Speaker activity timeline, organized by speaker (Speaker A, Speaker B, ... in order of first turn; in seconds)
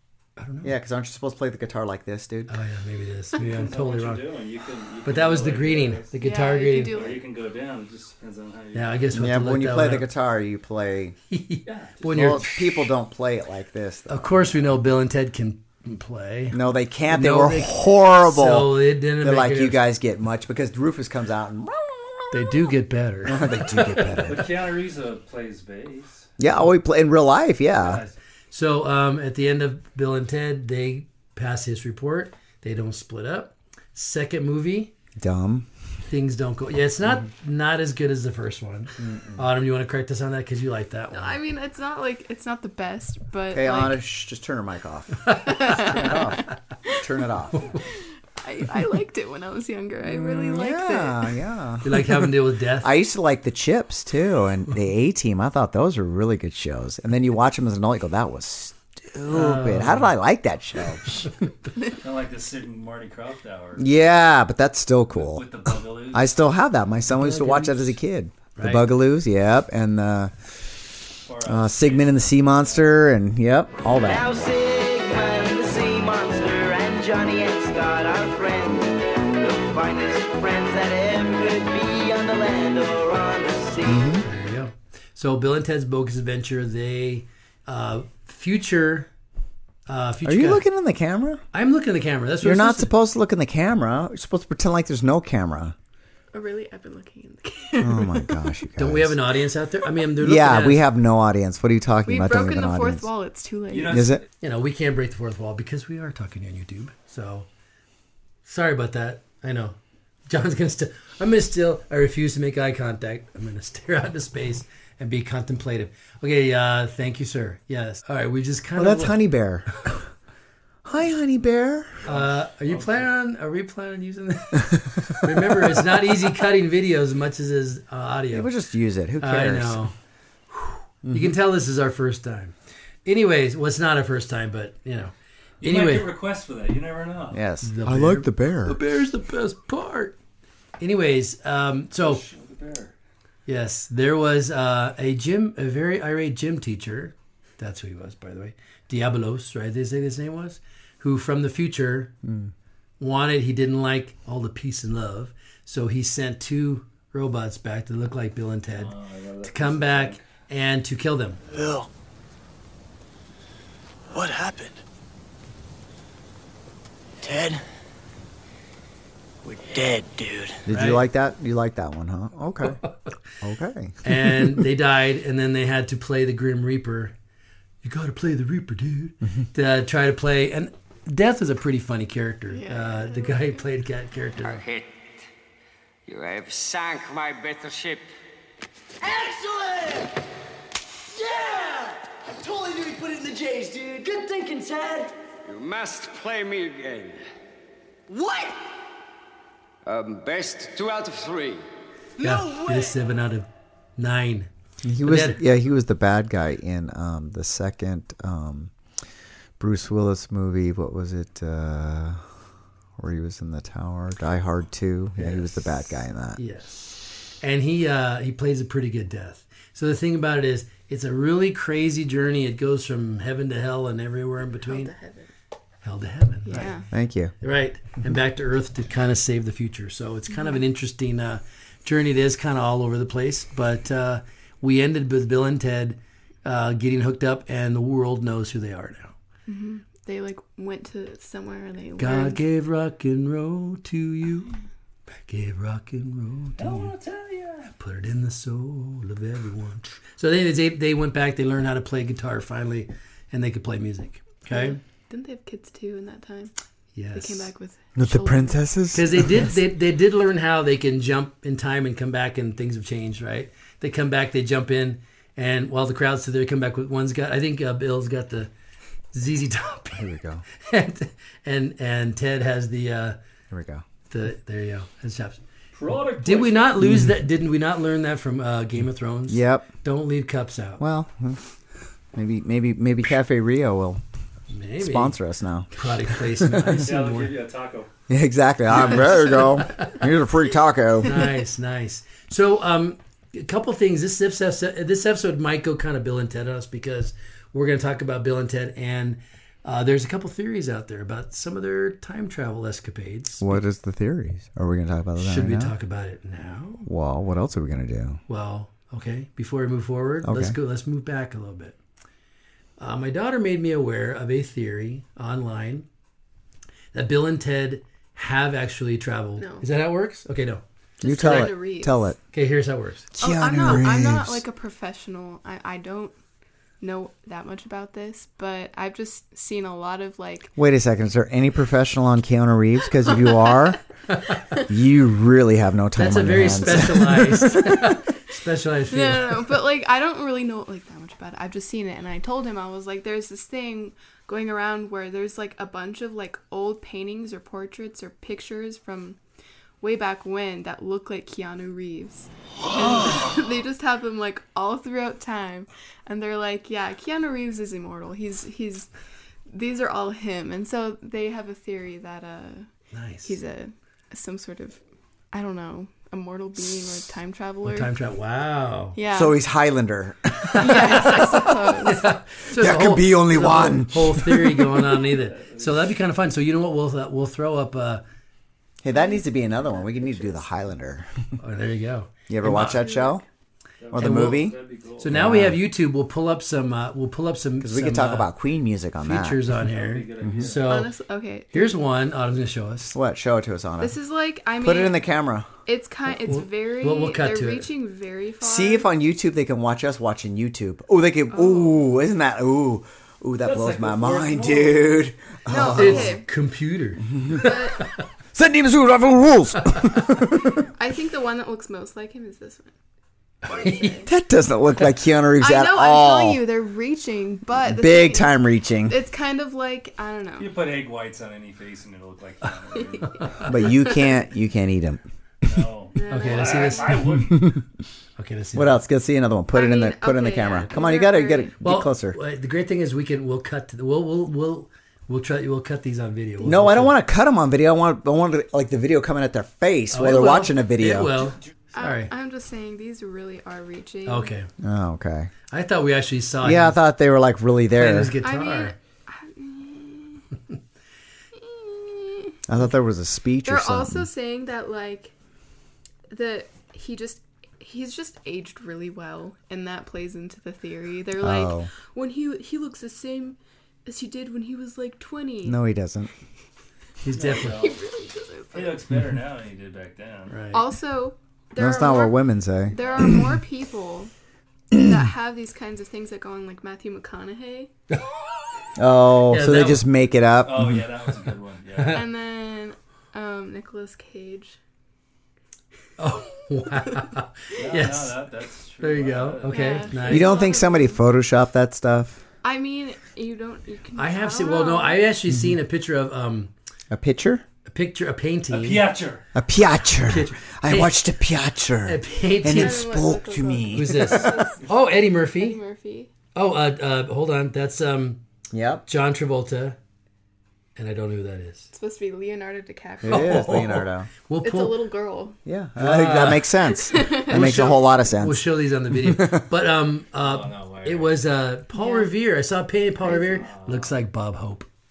Speaker A: 0.4-0.7, 2.5-4.3, 5.0-7.0, 8.7-10.1, 11.3-12.6, 14.1-16.6, 17.1-19.8, 22.3-24.3, 28.5-34.9, 36.1-41.4, 51.8-52.9, 59.3-60.2, 67.1-68.0, 68.6-68.9, 84.2-89.1, 89.9-90.7, 91.5-92.9, 98.8-100.8, 104.4-107.5, 108.5-119.2, 122.0-128.5, 129.2-129.9, 130.5-132.5, 133.1-136.1, 137.6-140.2, 140.8-142.2, 143.5-152.1, 153.0-161.4, 170.7-171.0, 174.0-177.1, 177.8-184.6, 202.2-204.5, 205.0-205.4, 215.2-224.9, 225.8-226.8, 227.4-239.1, 242.0-244.6, 245.3-246.9, 247.8-254.8, 256.9-257.5, 258.9-268.5, 269.1-270.1, 270.6-273.2, 274.1-275.4, 276.2-280.8, 284.5-285.2, 285.7-287.3, 291.1-303.5, 305.2-306.9, 308.3-311.8, 312.8-315.9, 316.9-320.6, 322.3-323.1, 336.0-339.5, 362.9-363.4, 367.6-369.0, 370.4-378.0, 381.4-382.9, 384.0-388.3, 389.0-390.9, 391.5-392.9, 396.2-397.7, 405.7-407.8, 413.4-414.0, 426.1-427.3, 428.2-428.8, 431.6-437.0, 439.9-442.1, 444.1-444.5, 445.5-446.8, 447.7-448.7, 467.0-467.7, 470.3-470.6, 479.3-479.9, 486.0-488.2, 488.8-490.4, 494.0-496.5, 497.7-498.9, 500.0-501.0, 501.9-503.0, 503.7-505.6, 506.4-508.2, 508.9-509.8, 510.8-511.7, 513.1-514.8, 515.8-516.5, 517.3-524.7
Speaker B: 0.6-2.5, 9.1-11.2, 12.1-14.6, 16.5-22.6, 23.2-24.4, 26.4-28.0, 35.2-35.7, 39.0-39.5, 43.5-47.7, 50.0-61.3, 63.8-65.5, 66.1-70.3, 71.4-74.3, 83.8-84.2, 90.2-91.4, 92.4-95.8, 97.8-99.2, 100.2-103.1, 103.8-104.2, 118.8-119.9, 120.8-122.1, 128.3-129.8, 131.1-131.3, 137.3-138.8, 152.2-152.5, 170.7-172.8, 173.4-174.5, 204.8-208.7, 209.6-212.2, 213.0-216.4, 226.9-227.3, 258.0-259.6, 269.9-270.4, 273.5-273.8, 279.3-279.7, 280.8-281.4, 282.1-284.0, 284.8-286.9, 288.1-291.1, 303.4-305.7, 306.9-308.2, 310.2-310.6, 321.0-322.2, 323.1-324.4, 330.6-333.8, 334.7-337.8, 369.1-370.9, 372.5-374.8, 378.8-381.1, 382.3-383.2, 383.9-384.6, 385.1-385.6, 387.6-389.4, 392.9-394.0, 394.6-395.5, 398.4-406.2, 407.1-407.6, 408.3-410.5, 414.1-416.4, 417.5-419.0, 423.5-425.0, 427.3-427.6, 428.6-432.2, 436.4-441.2, 444.6-445.3, 446.4-448.1, 452.5-454.1, 461.2-461.7, 465.4-466.1, 471.6-473.3, 478.8-480.9, 490.1-492.2, 496.9-497.4, 499.3-504.4, 508.5-508.8, 513.0-514.1, 515.5-519.5
Speaker C: 3.4-6.1, 6.8-9.1, 11.7-12.3, 24.2-26.3, 27.8-28.1, 61.9-63.9, 65.1-66.3, 71.2-73.0, 103.7-104.2, 122.0-123.1, 135.6-137.4, 142.0-142.9, 158.7-160.2, 246.6-247.7, 275.7-276.8, 286.8-287.9, 375.0-375.9, 383.8-385.2, 389.6-390.8, 403.4-405.1, 420.4-423.2, 425.4-427.6, 467.1-467.8, 468.5-470.4, 472.8-473.1, 480.4-482.0, 487.6-490.2, 498.5-499.2, 520.1-521.2, 523.4-523.9
Speaker D: 6.2-7.3, 41.1-44.0, 45.4-46.4, 47.8-51.4, 96.3-98.5, 102.1-104.1, 182.5-183.7, 224.6-225.3, 226.4-226.9, 230.3-230.6, 239.5-242.4, 254.5-256.5, 257.1-258.6, 319.4-319.7, 321.0-322.0, 323.2-326.2, 326.8-330.5, 338.9-349.2, 349.8-358.9, 359.5-362.7, 363.2-364.8, 365.3-367.9, 368.9-369.4, 370.6-372.1, 378.9-380.4, 382.7-383.2, 390.6-391.8, 393.8-395.0, 395.6-398.9, 401.3-401.9, 405.5-406.3, 407.3-407.9, 410.5-412.7, 413.5-414.1, 415.4-420.5, 422.7-424.3, 425.9-427.1, 429.5-431.5, 441.8-444.3, 448.2-450.2, 451.3-452.4, 453.4-455.1, 456.1-465.6, 467.3-468.8, 470.5-474.1, 474.7-477.7, 481.9-484.6, 489.5-491.0, 492.4-495.0, 502.4-504.7, 505.3-506.1, 511.7-513.7, 514.4-515.4, 516.9-517.7, 521.7-522.1, 523.0-523.5
Speaker E: 74.0-84.1, 189.0-190.1, 191.2-195.1, 198.1-198.5, 202.2-202.9
Speaker F: 184.4-185.2, 186.1-188.1, 195.5-197.2, 199.8-201.6